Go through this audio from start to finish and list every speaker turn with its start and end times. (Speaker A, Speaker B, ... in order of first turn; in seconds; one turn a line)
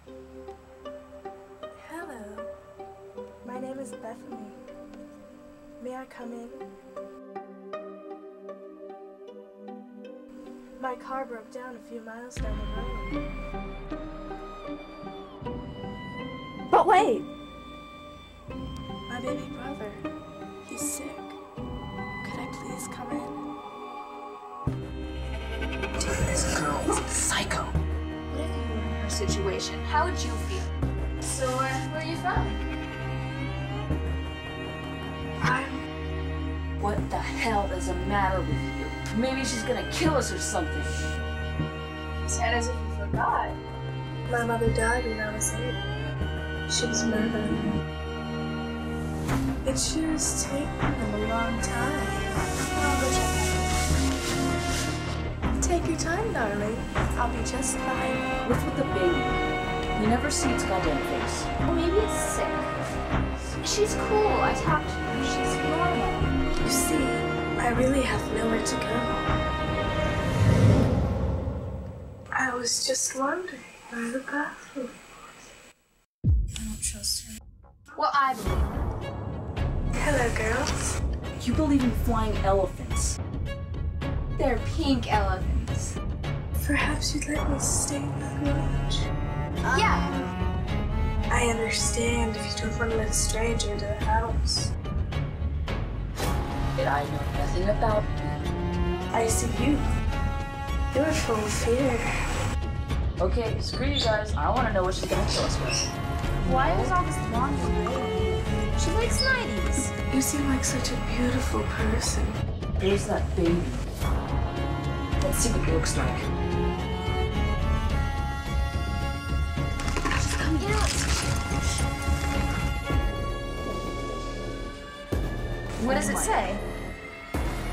Speaker A: 1.8-2.5
Speaker A: 3.4-4.6
Speaker A: 5.8-6.7
Speaker A: 10.8-13.2
Speaker B: 16.7-17.2
Speaker A: 19.1-20.1
Speaker A: 20.6-21.4
Speaker A: 22.2-23.4
Speaker C: 26.0-27.8
Speaker B: 28.3-30.7
Speaker B: 31.2-32.6
Speaker A: 35.4-35.8
Speaker C: 36.8-40.9
Speaker B: 42.3-43.6
Speaker A: 44.3-45.8
Speaker A: 46.7-47.8
Speaker A: 49.6-52.3
Speaker B: 52.6-53.7
Speaker A: 55.6-58.3
Speaker C: 58.4-59.4
Speaker C: 60.0-61.5
Speaker B: 61.6-62.7
Speaker B: 63.6-66.3
Speaker A: 66.6-69.2
Speaker A: 72.3-75.0
Speaker A: 76.6-77.3
Speaker B: 77.9-78.8
Speaker A: 79.9-80.8
Speaker C: 81.4-83.2
Speaker B: 84.4-86.0
Speaker A: 86.6-89.1
Speaker B: 89.7-90.2
Speaker A: 91.3-94.7
Speaker C: 96.8-98.3
Speaker A: 99.1-99.8
Speaker A: 100.9-102.1
Speaker C: 103.2-105.9
Speaker C: 106.4-107.0
Speaker B: 106.4-110.0
Speaker A: 110.1-112.4
Speaker C: 112.8-113.9
Speaker C: 115.2-116.3
Speaker B: 120.4-121.0
Speaker C: 125.8-126.5
Speaker B: 125.8-126.6